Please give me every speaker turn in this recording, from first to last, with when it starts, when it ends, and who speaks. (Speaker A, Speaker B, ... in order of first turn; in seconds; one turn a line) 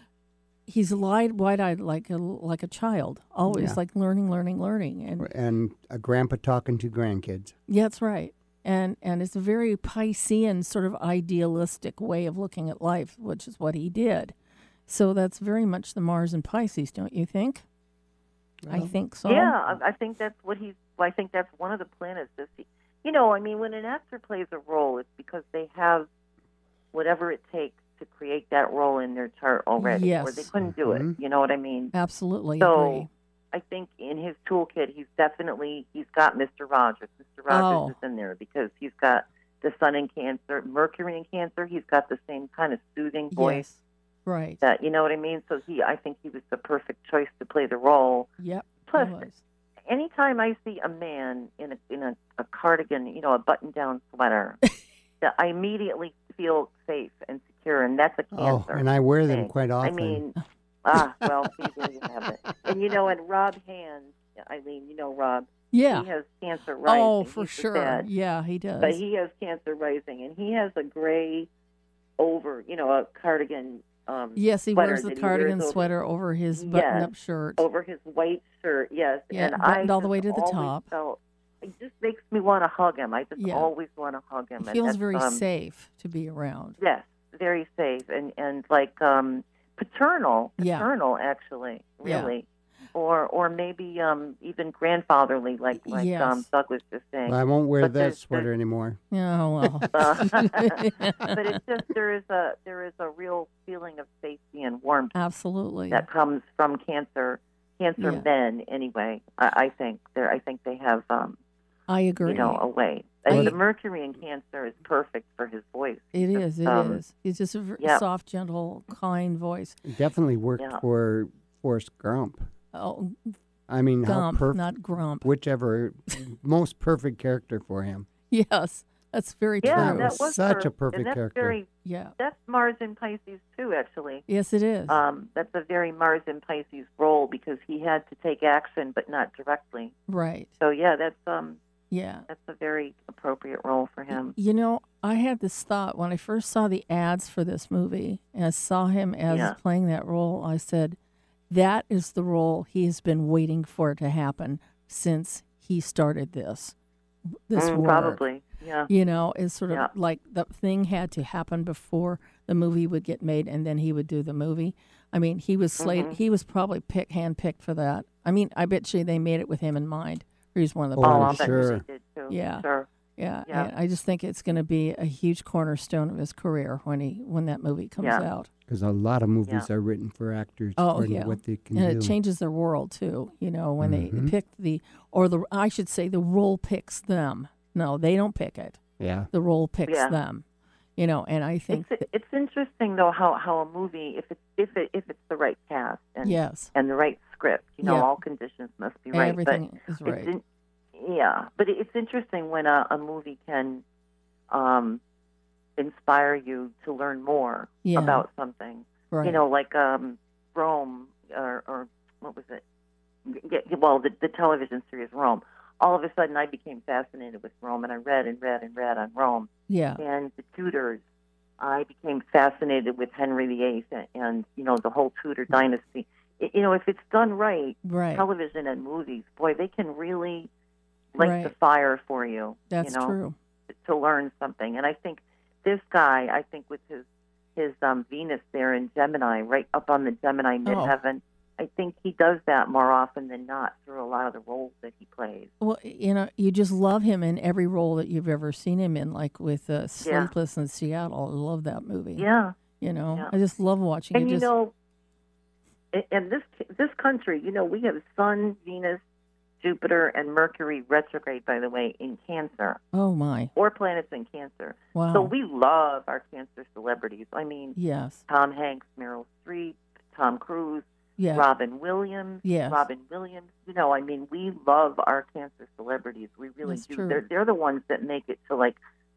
Speaker A: 0.7-5.3
Speaker B: 3.5-3.8
Speaker B: 5.2-7.5
Speaker A: 7.7-14.3
Speaker A: 14.9-17.6
Speaker B: 18.6-18.9
Speaker A: 18.7-19.6
Speaker C: 19.3-26.1
Speaker C: 26.9-31.9
Speaker A: 29.8-30.5
Speaker B: 30.6-31.1
Speaker A: 31.9-33.1
Speaker C: 32.6-43.6
Speaker A: 37.5-37.9
Speaker A: 43.3-44.6
Speaker C: 44.6-48.3
Speaker A: 48.4-49.4
Speaker C: 48.9-49.3
Speaker C: 49.9-54.6
Speaker C: 55.2-68.1
Speaker B: 58.3-60.2
Speaker A: 65.7-66.1
Speaker A: 66.9-69.0
Speaker C: 68.8-71.5
Speaker C: 72.2-75.9
Speaker A: 74.4-77.6
Speaker C: 76.5-85.4
Speaker A: 79.3-80.9
Speaker A: 83.4-83.7
Speaker A: 84.6-86.8
Speaker C: 86.8-98.5
Speaker A: 90.6-90.9
Speaker A: 92.0-92.3
Speaker A: 95.9-96.5
Speaker B: 97.3-99.0
Speaker A: 99.1-101.4
Speaker C: 99.9-105.2
Speaker A: 105.2-106.0
Speaker C: 105.9-111.4
Speaker A: 108.0-108.3
Speaker A: 111.9-112.6
Speaker C: 112.2-117.0
Speaker A: 113.3-113.6
Speaker B: 113.3-113.6
Speaker A: 116.1-119.8
Speaker B: 119.8-122.5
Speaker A: 122.7-123.3
Speaker B: 123.7-124.7
Speaker A: 124.0-125.3
Speaker B: 125.2-128.1
Speaker A: 128.3-130.2
Speaker C: 129.6-134.2
Speaker B: 129.7-131.6
Speaker A: 131.8-132.1
Speaker A: 134.3-135.0
Speaker C: 134.9-140.0
Speaker A: 140.1-140.5
Speaker C: 140.6-141.6
Speaker A: 141.9-142.3
Speaker C: 142.3-144.4
Speaker A: 144.1-151.0
Speaker C: 149.3-149.6
Speaker A: 151.5-156.8
Speaker A: 157.5-158.2
Speaker C: 157.6-158.9
Speaker A: 158.9-171.7
Speaker C: 165.8-166.2
Speaker B: 171.0-171.8
Speaker C: 171.0-172.9
Speaker A: 172.3-172.7
Speaker A: 173.2-178.5
Speaker C: 178.0-178.3
Speaker B: 178.7-182.2
Speaker A: 180.8-188.8
Speaker B: 183.8-184.3
Speaker B: 189.0-189.3
Speaker A: 189.3-190.4
Speaker C: 189.9-190.2
Speaker A: 191.0-192.1
Speaker C: 191.7-200.4
Speaker A: 196.2-196.7
Speaker A: 197.8-198.1
Speaker A: 199.1-200.3
Speaker C: 200.9-203.8
Speaker C: 204.5-205.0
Speaker C: 205.8-212.6
Speaker A: 207.8-208.2
Speaker A: 209.1-209.4
Speaker C: 213.3-221.0
Speaker A: 219.7-220.0
Speaker C: 221.6-230.5
Speaker A: 227.8-228.3
Speaker C: 231.2-233.2
Speaker A: 231.2-231.5
Speaker A: 232.7-233.4
Speaker C: 233.8-237.1
Speaker C: 237.6-245.5
Speaker A: 240.7-240.9
Speaker A: 245.6-252.3
Speaker C: 250.0-250.3
Speaker C: 252.2-252.6
Speaker A: 252.8-254.5
Speaker C: 254.1-254.7
Speaker C: 255.9-259.0
Speaker C: 259.6-262.8
Speaker A: 262.9-263.5
Speaker C: 263.6-267.8
Speaker A: 264.9-265.3
Speaker A: 267.8-268.2
Speaker C: 268.3-278.8
Speaker A: 271.2-271.5
Speaker A: 272.4-272.8
Speaker A: 276.6-277.2